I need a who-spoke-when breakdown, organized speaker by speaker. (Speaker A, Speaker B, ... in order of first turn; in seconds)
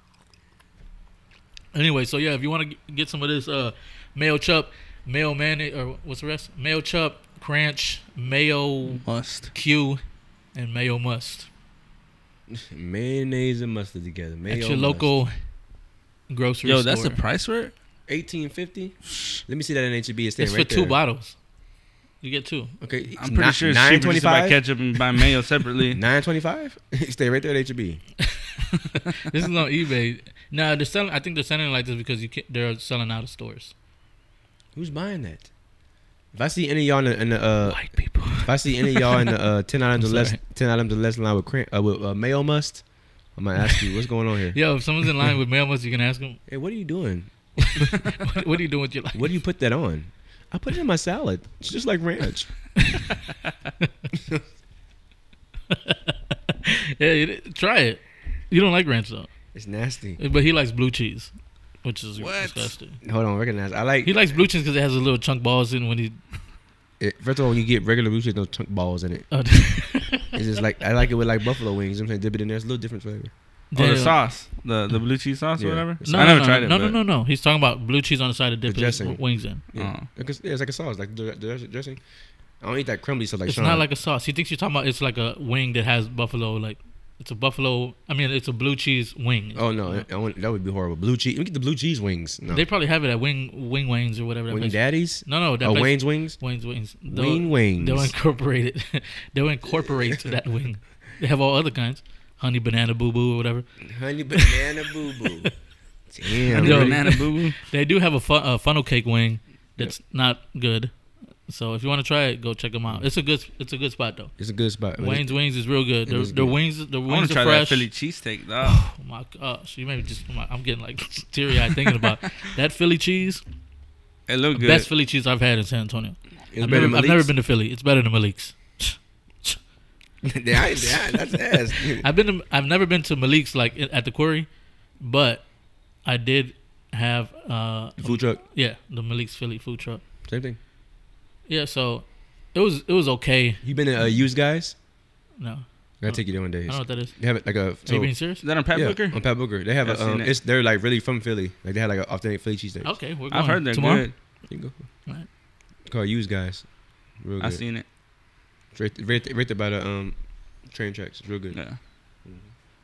Speaker A: 1.7-10.0, 10.5-11.5, 14.5-15.3, 16.3-17.2, 20.4-21.4, 22.2-22.7, 28.9-33.7, 37.6-39.3, 40.0-40.4, 44.5-46.4, 47.6-49.3, 55.7-59.3, 60.2-61.3, 61.8-63.0, 64.0-66.2, 69.3-70.4, 73.7-74.2, 76.0-79.6, 83.5-90.1, 92.5-103.7, 104.3-104.7, 106.3-110.9, 111.5-114.3, 115.0-117.9, 118.6-123.4, 124.5-129.6, 130.7-135.4, 136.0-140.0, 141.5-143.6, 145.4-147.1, 147.8-148.4, 152.8-154.1
Speaker B: 9.0-9.5, 16.6-17.7, 19.1-19.4, 23.2-26.0, 62.2-62.7, 73.7-77.0, 79.7-80.1, 106.5-107.6, 117.0-118.8, 124.3-124.9, 148.4-149.3, 149.8-150.3, 153.3-154.1, 157.4-157.8, 161.5-161.8
Speaker C: 12.5-15.1, 18.1-21.0, 22.8-24.6, 25.9-28.0, 34.7-35.5, 36.3-42.8, 43.3-44.6, 46.5-47.3, 49.1-52.5, 54.1-54.4, 59.5-60.2, 63.0-64.4, 67.0-69.3, 70.3-73.3, 75.6-76.4, 78.7-79.2, 79.7-82.0, 82.6-83.8, 89.5-92.6, 94.5-96.4, 97.1-98.1, 99.7-100.2, 103.8-105.5, 106.1-107.1, 114.4-115.3, 116.0-116.6, 126.5-127.3, 130.2-132.1, 138.0-138.4, 140.2-140.6, 143.6-144.7, 146.0-148.1, 148.7-152.9, 154.5-154.8, 155.8-156.7, 157.2-157.6, 158.7-161.6